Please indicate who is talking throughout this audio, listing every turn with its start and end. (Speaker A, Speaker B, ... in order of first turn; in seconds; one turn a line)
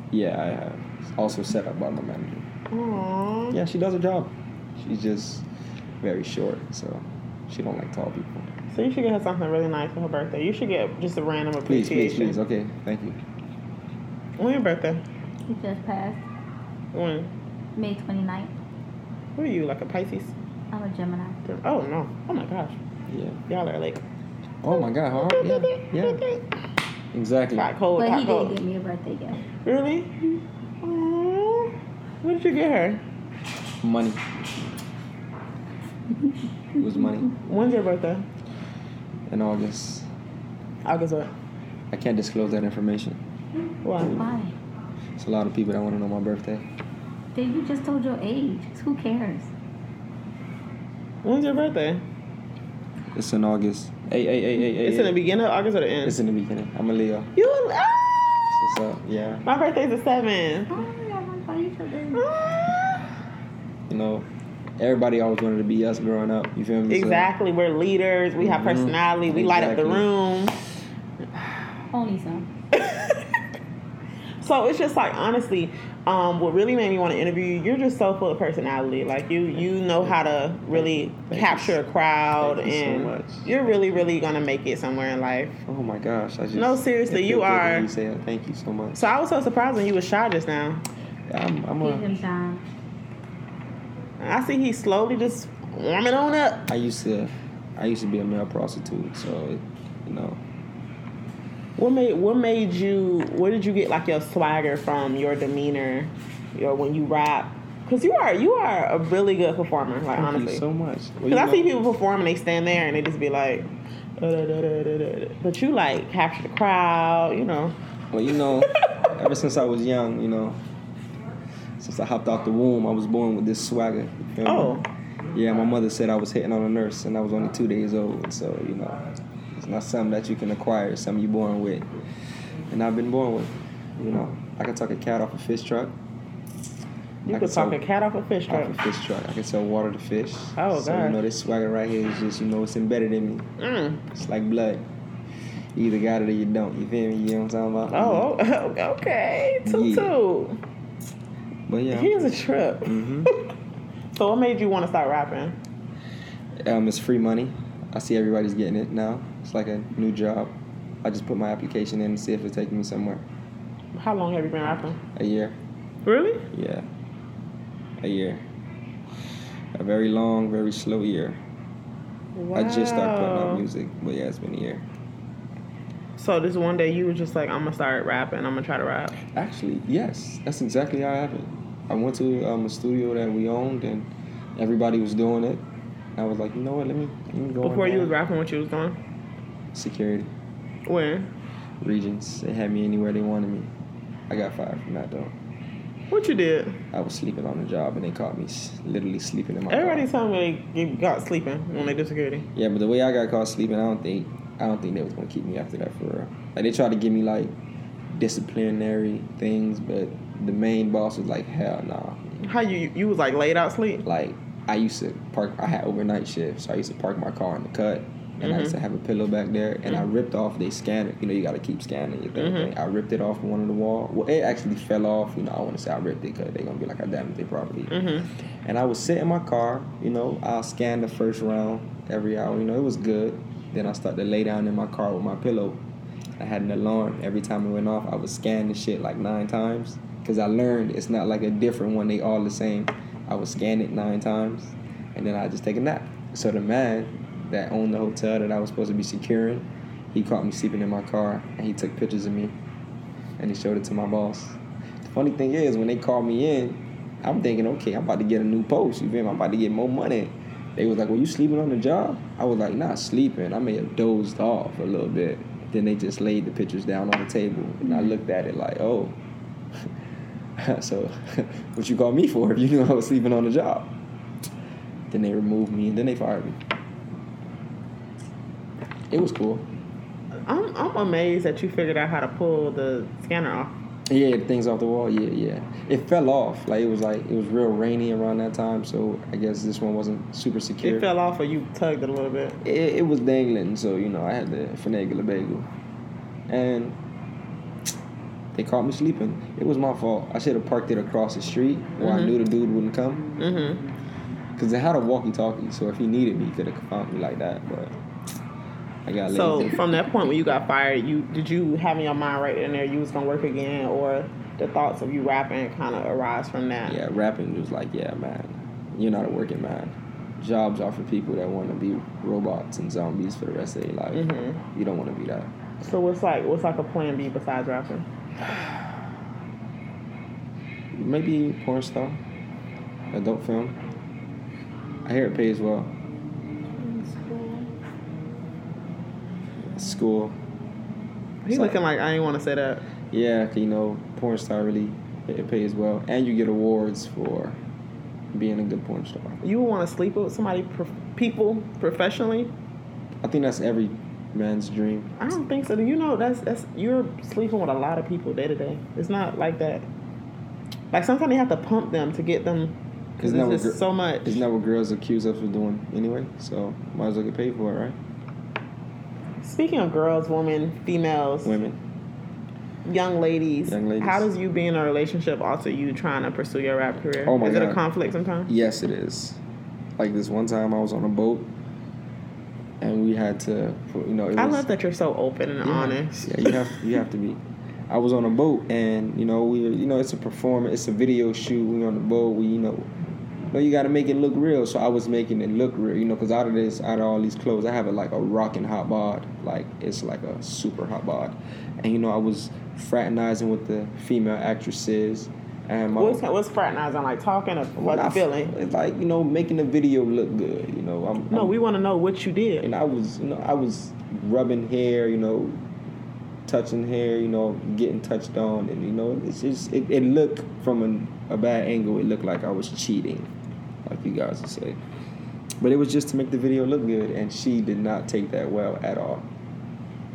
Speaker A: 0.1-2.5
Speaker B: 2.7-3.6
Speaker A: 3.5-5.5
Speaker A: 6.0-8.5
Speaker B: 8.7-12.4
Speaker A: 11.7-13.2
Speaker B: 14.4-15.0
Speaker C: 15.5-16.2
Speaker B: 16.9-17.3
Speaker C: 17.8-18.5
Speaker B: 19.4-20.3
Speaker C: 20.7-21.4
Speaker B: 21.5-22.8
Speaker A: 23.1-23.4
Speaker B: 23.5-24.0
Speaker A: 24.6-26.2
Speaker B: 25.1-26.4
Speaker A: 27.1-27.7
Speaker B: 27.6-28.6
Speaker C: 28.0-29.4
Speaker B: 29.6-33.0
Speaker A: 33.8-34.2
Speaker A: 36.8-37.3
Speaker B: 37.4-38.3
Speaker A: 39.3-40.1
Speaker B: 40.9-41.3
Speaker A: 41.9-43.2
Speaker B: 43.8-44.2
Speaker C: 44.0-44.5
Speaker A: 45.2-46.6
Speaker C: 47.3-49.5
Speaker B: 51.2-52.0
Speaker A: 53.1-55.2
Speaker B: 54.8-56.1
Speaker A: 56.0-57.3
Speaker B: 57.4-58.4
Speaker A: 58.5-59.5
Speaker B: 59.5-60.9
Speaker C: 60.7-62.3
Speaker B: 62.1-63.0
Speaker A: 63.9-64.3
Speaker A: 64.8-67.3
Speaker B: 66.9-70.5
Speaker A: 68.4-70.1
Speaker C: 71.9-72.5
Speaker B: 72.7-73.4
Speaker B: 74.4-85.6
Speaker A: 80.7-81.8
Speaker A: 82.4-83.8
Speaker A: 85.7-89.0
Speaker B: 86.5-87.9
Speaker B: 89.0-90.8
Speaker A: 91.3-92.1
Speaker C: 91.8-92.6
Speaker B: 94.2-96.7
Speaker A: 96.7-100.4
Speaker B: 101.8-110.6
Speaker A: 110.2-111.7
Speaker B: 111.3-117.8
Speaker A: 118.1-120.6
Speaker A: 121.8-124.8
Speaker B: 124.5-124.8
Speaker A: 125.3-129.0
Speaker A: 129.5-131.9
Speaker A: 132.7-136.0
Speaker B: 137.3-138.8
Speaker A: 137.3-137.8
Speaker A: 138.5-143.5
Speaker B: 140.6-141.2
Speaker B: 143.6-144.0
Speaker A: 144.1-144.8
Speaker A: 145.8-148.3
Speaker B: 147.9-150.6
Speaker A: 149.7-150.2
Speaker A: 151.7-152.3
Speaker B: 151.9-153.3
Speaker A: 152.8-153.3
Speaker B: 154.1-155.6
Speaker A: 156.6-163.3
Speaker B: 163.9-165.0
Speaker A: 165.2-165.6
Speaker B: 166.1-166.5
Speaker A: 166.5-166.9
Speaker A: 168.0-168.5
Speaker A: 169.8-171.4
Speaker B: 172.3-173.7
Speaker A: 172.6-174.9
Speaker B: 176.2-179.2
Speaker A: 179.3-185.6
Speaker A: 186.2-188.2
Speaker B: 187.6-189.0
Speaker A: 189.7-190.3
Speaker B: 190.9-191.3
Speaker A: 191.8-193.7
Speaker A: 194.3-195.3
Speaker B: 196.1-196.8
Speaker A: 196.9-200.1
Speaker B: 199.7-202.5
Speaker A: 202.5-207.6
Speaker A: 208.1-212.4
Speaker B: 212.4-214.1
Speaker A: 214.1-235.8
Speaker B: 218.4-218.8
Speaker B: 222.4-222.7
Speaker B: 227.9-228.3
Speaker A: 236.4-252.6
Speaker A: 253.4-269.2
Speaker A: 270.6-274.0
Speaker A: 275.1-276.6
Speaker A: 279.1-279.7
Speaker B: 280.5-283.7
Speaker A: 284.1-291.1
Speaker B: 290.8-292.6
Speaker A: 292.6-295.7
Speaker A: 296.5-297.0
Speaker A: 298.5-303.4
Speaker B: 302.0-302.4
Speaker B: 303.4-303.8
Speaker A: 304.6-308.0
Speaker A: 309.1-309.9
Speaker B: 309.3-317.0
Speaker A: 316.9-325.5
Speaker B: 324.1-324.6
Speaker B: 325.8-328.1
Speaker A: 328.4-328.9
Speaker A: 330.9-332.2
Speaker A: 333.1-333.8
Speaker A: 335.1-336.0
Speaker B: 336.8-337.7
Speaker A: 339.7-340.4
Speaker B: 341.4-342.9
Speaker A: 341.5-341.8
Speaker A: 343.1-347.6
Speaker A: 348.3-349.4
Speaker B: 349.4-352.5
Speaker A: 353.2-355.2
Speaker B: 355.2-359.9
Speaker B: 360.9-364.4
Speaker A: 363.2-368.0
Speaker B: 369.4-371.6
Speaker A: 371.4-371.8
Speaker B: 372.9-378.5
Speaker A: 373.7-374.3
Speaker A: 377.2-377.8
Speaker A: 378.5-379.4
Speaker A: 380.0-381.5
Speaker A: 382.8-384.7
Speaker B: 384.4-386.8
Speaker A: 385.6-392.9
Speaker A: 393.5-406.2
Speaker B: 406.0-408.5
Speaker A: 407.8-411.6
Speaker B: 411.3-412.7
Speaker A: 412.6-415.6
Speaker A: 416.5-423.3
Speaker A: 423.9-424.8
Speaker A: 425.6-429.3